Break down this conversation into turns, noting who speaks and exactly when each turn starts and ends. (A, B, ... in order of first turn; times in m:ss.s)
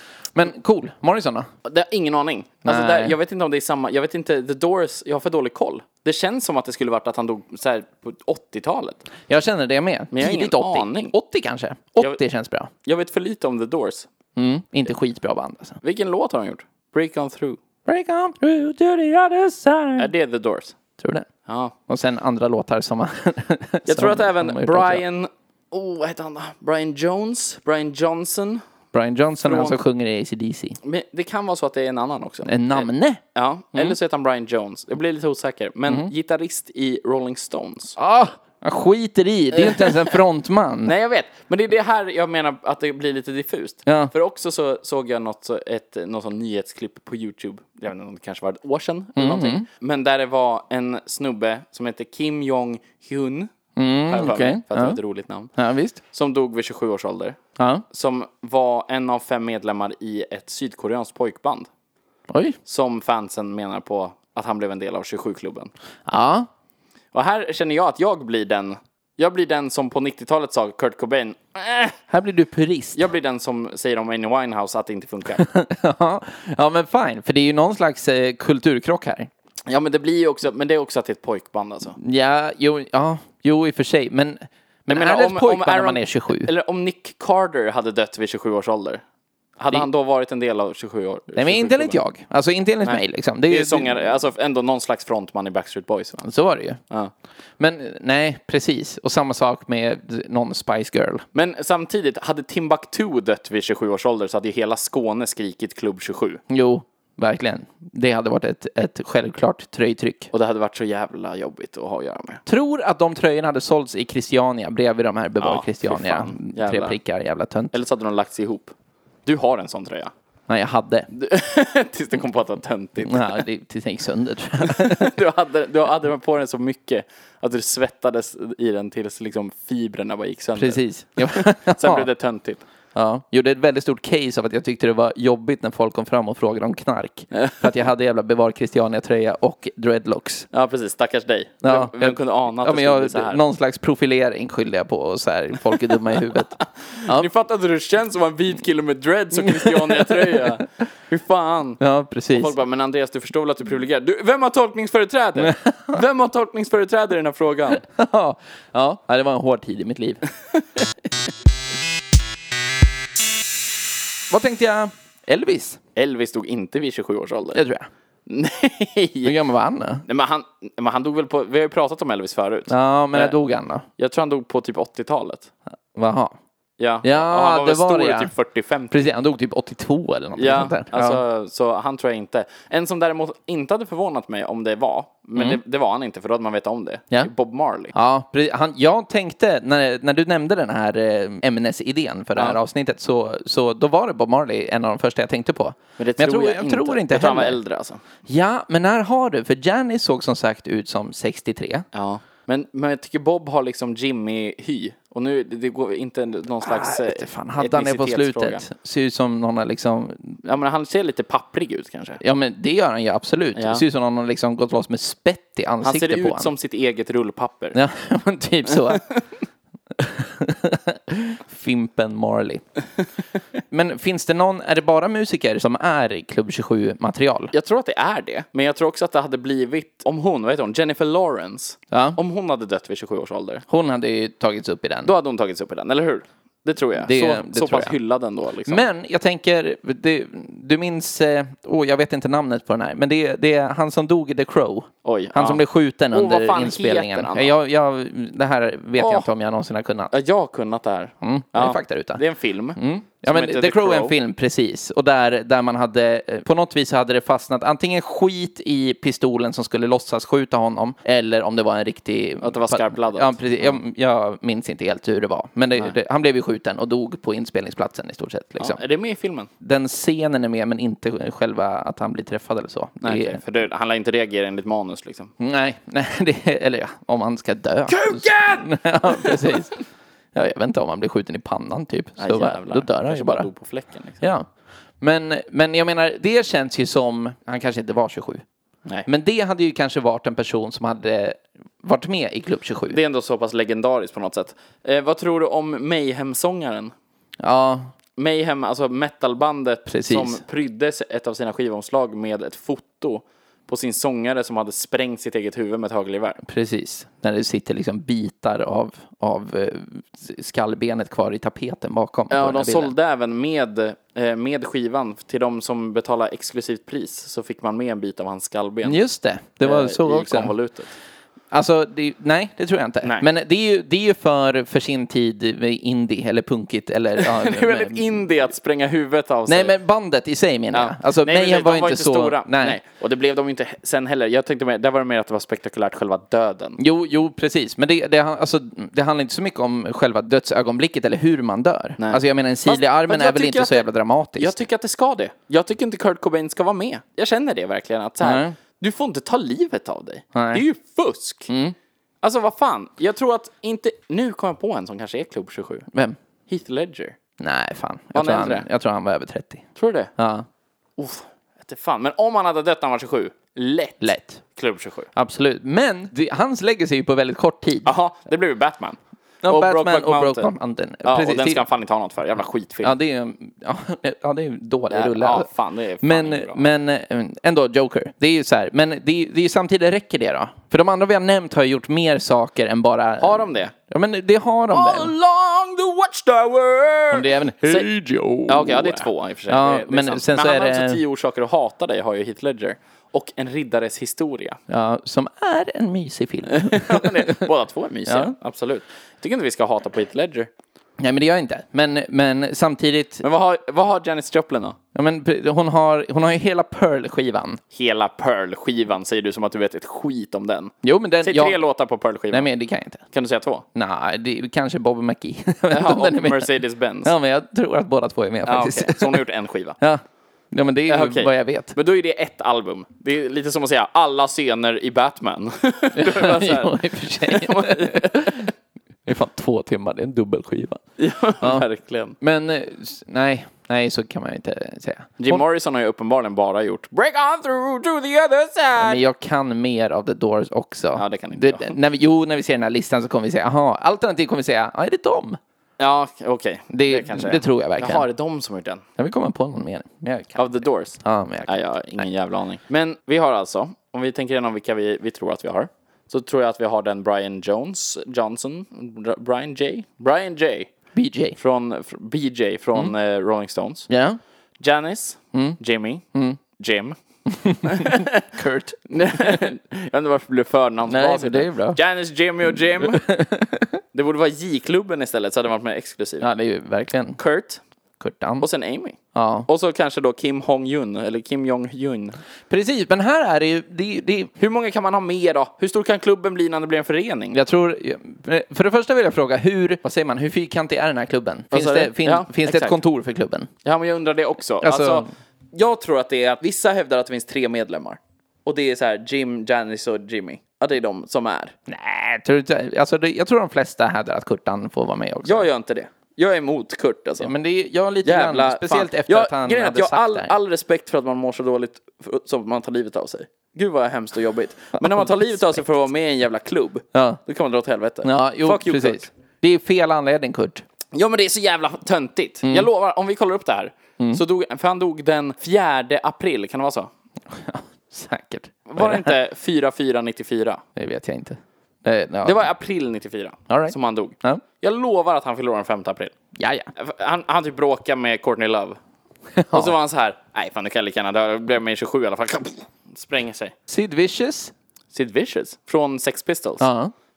0:00.3-0:01.5 A
0:01.6-0:09.0 B
0:02.6-0:03.2 A
0:09.3-0:12.7 A
0:10.1-0:11.1 B
0:12.8-0:14.1 B
0:14.4-0:15.8 A
0:15.8-0:17.6 B
0:17.8-0:20.1 A
0:20.0-0:20.8 B
0:21.0-0:21.3 A
0:21.4-0:21.7 B
0:21.9-0:25.0 A
0:23.8-0:28.6 B
0:28.9-0:30.8 A
0:29.4-0:29.8 B
0:30.8-0:38.0 B
0:32.4-0:33.2 A
0:38.0-0:40.9 A
0:39.5-0:40.2 B
0:40.8-0:53.5 B
0:43.8-0:44.1 A
0:49.2-0:49.7 A
0:53.8-0:55.0 A
0:54.1-0:55.5 B
0:55.6-0:56.0 A
0:56.1-0:57.4 B
0:57.6-0:57.8 A
0:57.9-1:01.7 B
1:02.3-1:02.6 A
1:02.6-1:05.7 B
1:06.1-1:06.5 A
1:07.1-1:12.0 B
1:12.1-1:13.0 A
1:12.9-1:15.4 B
1:15.4-1:19.3 A
1:19.7-1:22.0 B
1:22.0-1:26.5 A
1:24.9-1:29.0 B
1:29.6-1:32.0 B
1:31.4-1:34.0 A
1:32.8-1:36.3 B
1:36.2-1:36.8 A
1:37.6-1:41.2 A
1:41.3-1:46.4 B
1:46.5-1:50.3 A
1:50.3-1:52.4 B
1:52.4-1:57.7 A
1:55.4-1:57.0 B
1:57.7-1:58.7 B
1:59.2-2:00.1 B
2:00.5-2:01.1 A
2:01.1-2:03.4 B
2:03.0-2:05.1 A
2:04.6-2:12.6 B
2:10.6-2:12.1 A
2:12.9-2:20.5 A
2:17.3-2:17.6 B
2:20.5-2:23.4 B
2:21.6-2:27.3 A
2:26.8-2:31.8 B
2:29.3-2:30.6 A
2:31.8-2:32.5 A
2:32.3-2:37.8 B
2:35.4-2:36.0 A
2:37.8-2:40.2 A
2:44.3-2:45.8 A
2:46.0-2:47.6 B
2:47.5-2:47.9 A
2:48.3-2:49.4 B
2:49.2-2:50.0 A
2:50.0-2:53.4 B
2:52.7-2:53.9 A
2:54.0-2:55.5 B
2:55.9-2:56.3 A
2:56.8-2:59.0 B
2:57.0-2:58.3 A
2:58.9-3:01.2 A
3:00.4-3:07.9 B
3:07.9-3:17.6 A
3:16.0-3:18.0 B
3:18.2-3:21.8 A
3:21.9-3:28.6 B
3:26.6-3:30.4 A
3:30.4-3:32.2 B
3:32.2-3:36.5 A
3:33.5-3:33.8 B
3:35.8-3:37.8 B
3:37.7-3:39.0 A
3:40.0-3:42.6 A
3:43.7-3:47.5 A
3:47.5-3:53.6 B
3:51.9-3:52.2 A
3:53.7-3:55.1 A
3:55.0-3:58.8 B
3:57.0-3:57.9 A
3:58.6-4:10.1 A
4:05.0-4:07.5 B
4:09.0-4:09.3 B
4:10.1-4:14.1 B
4:11.2-4:12.2 A
4:12.8-4:28.8 A
4:22.4-4:23.8 B
4:28.6-4:29.5 B
4:29.6-4:33.4 A
4:33.0-4:35.3 B
4:35.4-4:39.8 A
4:37.9-4:39.6 B
4:40.3-4:43.5 A
4:42.2-4:44.3 B
4:44.2-4:44.5 A
4:45.0-4:48.4 A
4:49.0-4:53.0 A
4:52.9-4:56.9 B
4:57.4-4:57.9 A
4:58.2-5:06.4 B
4:59.9-5:00.4 A
5:06.4-5:12.9 A
5:12.3-5:19.0 B
5:18.8-5:20.5 A
5:19.6-5:20.9 B
5:21.5-5:28.2 A
5:27.2-5:29.7 B
5:29.5-5:32.8 A
5:30.7-5:36.8 B
5:36.8-5:44.6 A
5:42.0-5:43.8 B
5:44.4-5:51.5 B
5:48.2-5:48.6 A
5:50.3-5:50.6 A
5:51.5-5:51.7 A
5:52.2-5:55.9 B
5:55.9-5:56.2 A
5:56.5-5:57.2 B
5:57.4-5:59.6 A
5:58.1-5:58.6 B
5:59.8-6:00.1 B
6:00.2-6:00.5 A
6:01.0-6:05.1 B
6:04.0-6:04.4 A
6:05.1-6:07.9 A
6:07.8-6:10.5 B
6:09.4-6:11.6 A
6:11.0-6:12.9 B
6:12.8-6:15.5 A
6:14.9-6:16.6 B
6:16.0-6:25.1 A
6:23.2-6:23.7 B
6:24.7-6:27.9 B
6:27.1-6:31.0 A
6:28.5-6:34.6 B
6:34.7-6:37.5 A
6:36.5-6:40.5 B
6:38.1-6:38.3 A
6:41.0-6:43.2 A
6:43.2-6:44.8 B
6:44.9-6:47.6 A
6:47.7-6:52.5 B
6:50.8-6:51.6 A
6:52.3-6:53.0 A
6:53.1-6:53.6 B
6:53.7-6:59.2 A
6:55.7-6:57.1 B
6:58.4-6:59.8 B
6:59.8-7:01.8 A
7:00.9-7:08.5 B
7:05.9-7:08.5 A
7:09.0-7:10.8 A
7:11.0-7:12.2 B
7:12.2-7:15.4 A
7:15.2-7:19.0 B
7:18.8-7:25.4 A
7:20.9-7:21.8 B
7:25.8-7:28.8 B
7:26.7-7:28.1 A
7:29.0-7:32.0 A
7:30.4-7:40.7 B
7:40.9-7:41.4 A
7:41.4-7:43.9 B
7:43.9-7:44.2 A
7:44.6-7:47.0 B
7:46.1-7:46.4 A
7:47.3-7:49.4 A
7:47.6-7:48.3 B
7:48.9-7:53.1 B
7:50.9-7:51.8 A
7:52.8-7:53.8 A
7:53.9-7:56.3 B
7:56.2-7:57.2 A
7:57.2-7:57.6 B
7:58.0-7:58.4 A
7:58.4-8:02.2 B
7:59.1-7:59.5 A
8:02.5-8:04.3 A
8:04.4-8:07.4 B
8:07.3-8:13.5 A
8:11.5-8:12.8 B
8:13.6-8:21.5 B
8:14.6-8:15.1 A
8:21.7-8:25.4 A
8:25.2-8:27.3 B
8:27.2-8:30.3 A
8:28.0-8:39.1 B
8:34.9-8:35.6 A
8:36.9-8:37.2 A
8:38.0-8:40.6 A
8:40.9-8:46.9 B
8:42.4-8:42.7 A
8:47.3-8:49.2 A
8:48.7-8:50.6 B
8:50.8-8:52.5 A
8:52.2-8:56.1 B
8:53.5-8:54.4 A
8:56.4-8:56.7 A
8:56.7-8:58.8 B
8:59.4-8:59.7 A
8:59.5-9:03.5 B
9:03.7-9:04.5 A
9:04.9-9:06.7 B
9:06.6-9:06.9 A